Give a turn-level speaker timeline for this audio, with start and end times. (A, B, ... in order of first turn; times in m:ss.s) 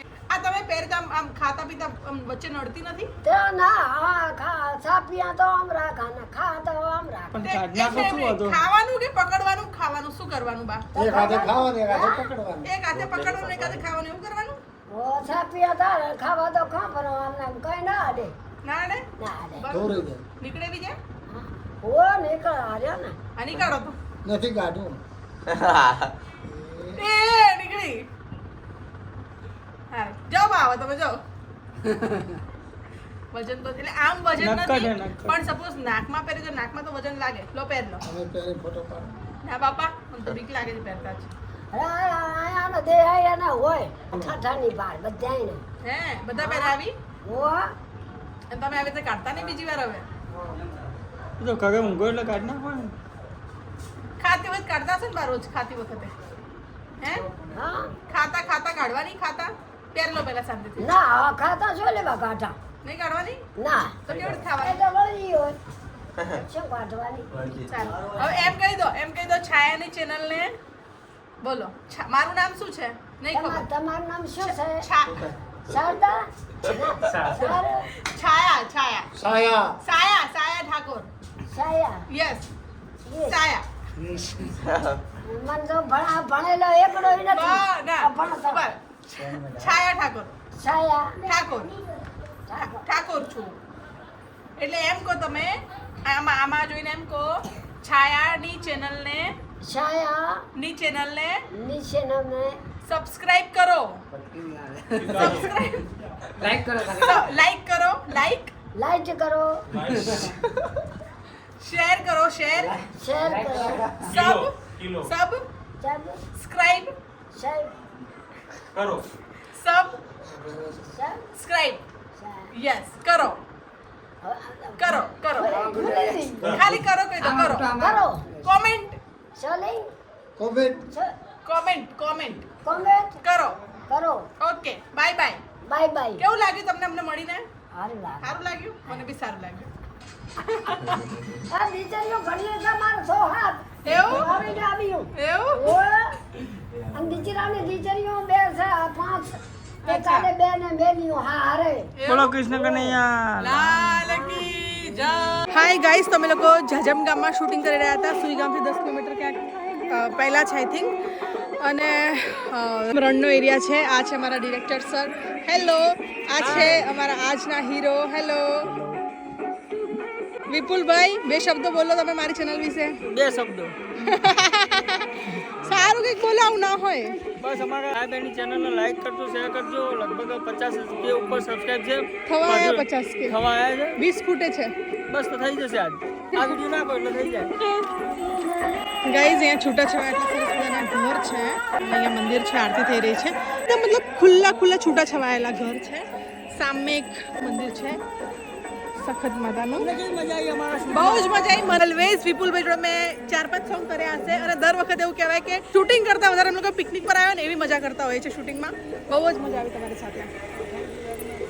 0:00.3-0:03.1 A
0:03.2-0:07.4 B
0:07.3-0:08.6 C
0:07.4-0:10.9 A
0:10.9-0:12.3 B
0:11.0-0:12.8 D
0:12.6-0:14.6 A
0:14.9-0:18.3 B
0:18.6-0:19.0 A
0:19.2-0:19.7 B
0:19.6-0:21.0 A
0:19.7-0:20.2 D
0:21.3-0:23.2 B
0:23.4-0:24.0 A
0:24.2-0:25.0 D
0:26.4-0:27.0 D
0:27.0-0:28.1 A
0:29.9-0:31.2 A
0:33.3-0:38.0 A
0:34.4-0:35.4 C
0:38.0-0:39.2 D
0:39.4-0:41.3 A
0:41.7-0:45.6 B
0:45.8-0:46.9 A
0:46.4-0:47.7 B
0:48.5-0:50.0 A
0:51.4-0:52.9 C
0:54.2-0:56.1 A
0:57.0-0:57.2 A
0:57.5-0:57.9 B
0:58.1-1:00.9 A
1:00.8-1:02.6 B
1:02.8-1:03.4 A
1:03.6-1:04.0 B
1:04.0-1:04.8 A
1:04.6-1:05.6 B
1:06.2-1:08.5 B
1:07.6-1:10.5 A
1:11.4-1:13.6 A
1:13.3-1:14.8 B
1:14.4-1:15.3 A
1:15.6-1:17.9 B
1:17.4-1:19.1 A
1:19.2-1:19.8 D
1:19.8-1:21.1 A
1:21.5-1:22.0 B
1:22.1-1:22.5 A
1:23.0-1:23.4 B
1:23.3-1:23.6 A
1:25.2-1:28.6 B
1:27.3-1:30.3 A
1:30.6-1:31.8 B
1:31.2-1:31.7 A
1:32.5-1:32.9 B
1:32.6-1:33.6 A
1:34.6-1:39.4 A
1:39.6-1:40.4 B
1:40.6-1:41.4 A
1:41.5-1:42.6 B
1:42.8-1:44.0 A
1:45.0-1:45.5 E
1:45.0-1:45.9 A
1:46.7-1:48.5 A
1:48.8-1:49.6 B
1:49.8-1:50.4 E
1:51.6-1:52.8 A
1:52.9-1:54.0 B
1:54.0-1:55.1 E
1:54.0-1:55.4 A
1:55.8-1:56.2 B
1:56.4-1:56.9 A
1:57.3-1:57.8 B
1:58.8-1:59.0 E
1:59.5-2:00.0 A
2:00.4-2:00.8 D
2:00.9-2:01.2 B
2:01.4-2:01.8 A
2:02.2-2:02.5 B
2:02.5-2:03.4 A
2:04.2-2:06.6 B
2:04.8-2:05.8 A
2:05.8-2:06.6 D
2:06.4-2:07.8 A
2:07.6-2:08.2 B
2:08.4-2:09.0 A
2:09.4-2:09.9 B
2:10.4-2:10.9 D
2:11.4-2:12.5 A
2:12.6-2:13.2 B
2:13.2-2:13.6 A
2:13.9-2:14.3 B
2:14.4-2:15.4 A
2:15.6-2:16.2 B
2:16.2-2:17.4 A
2:17.7-2:18.3 B
2:18.2-2:19.7 A
2:20.4-2:21.0 A
2:21.5-2:26.2 B
2:23.8-2:24.5 A
2:25.1-2:25.8 A
2:26.9-2:31.9 B
2:29.9-2:30.3 A
2:32.0-2:32.4 A
2:32.1-2:34.0 C
2:33.4-2:40.9 A
2:41.6-2:48.7 A
2:46.4-2:46.9 C
2:48.6-2:49.0 C
2:50.5-2:53.0 A
2:53.0-2:53.8 C
2:54.0-2:57.2 A
2:57.4-3:04.0 C
3:02.2-3:03.4 A
3:04.0-3:04.8 A
3:05.1-3:07.5 C
3:07.6-3:07.9 A
3:09.0-3:18.0 A
3:19.0-3:19.9 A
3:19.8-3:21.4 C
3:20.9-3:30.3 A